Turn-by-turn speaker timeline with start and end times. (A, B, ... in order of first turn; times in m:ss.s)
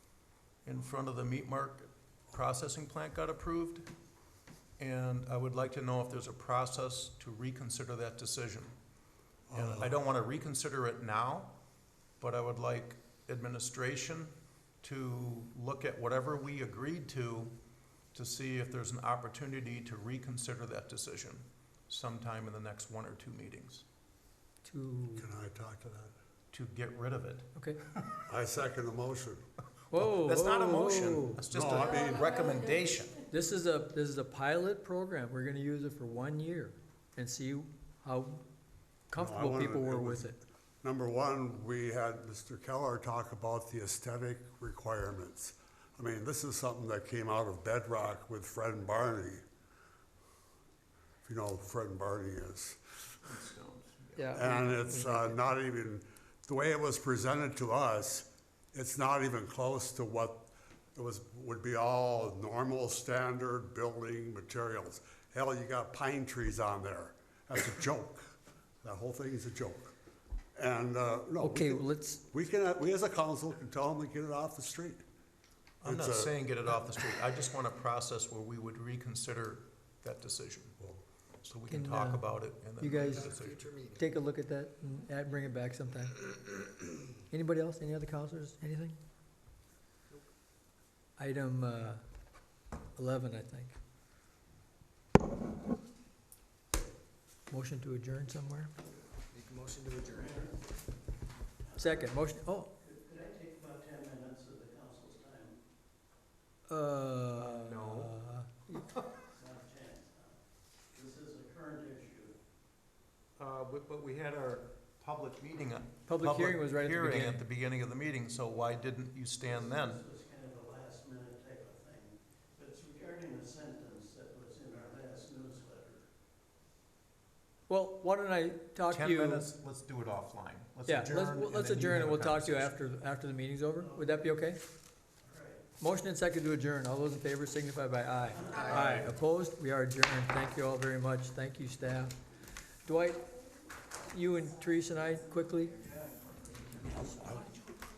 0:00.6-0:03.9 A
0:04.8-0:08.8 A
0:09.5-0:10.0 B
0:09.5-0:11.6 A
0:12.2-0:17.5 A
0:18.1-0:23.9 A
0:24.6-0:25.3 C
0:25.2-0:26.1 B
0:26.5-0:28.2 A
0:28.3-0:29.4 B
0:29.9-0:31.5 C
0:29.9-0:33.2 A
0:31.5-0:32.4 B
0:33.2-0:38.4 C
0:39.1-0:40.4 C
0:39.2-0:49.4 B
0:51.2-0:52.8 B
0:53.2-0:54.2 A
0:54.2-0:55.4 C
0:54.3-1:09.9 B
1:10.6-1:15.0 B
1:11.4-1:12.2 C
1:15.8-1:16.4 B
1:15.8-1:20.8 A
1:21.4-1:23.6 A
1:21.7-1:23.3 C
1:23.0-1:24.1 D
1:24.0-1:26.2 C
1:27.3-1:29.0 C
1:31.2-1:32.0 C
1:33.0-1:33.8 C
1:37.5-1:38.7 C
1:39.3-1:40.3 D
1:40.0-1:40.6 E
1:41.7-1:42.1 E
1:41.8-1:42.7 C
1:42.8-1:45.6 E
1:46.7-1:48.9 C
1:47.4-1:48.2 A
1:49.3-1:50.4 E
1:50.9-1:52.4 E
1:53.4-2:00.0 A
1:56.0-1:57.5 C
1:59.4-2:06.1 E
2:07.7-2:09.5 C
2:08.9-2:12.7 A
2:10.9-2:14.6 C
2:13.8-2:14.3 E
2:15.2-2:15.7 E
2:15.8-2:22.1 C
2:18.6-2:19.0 D
2:22.9-2:23.2 C
2:24.1-2:25.8 C
2:27.0-2:27.5 B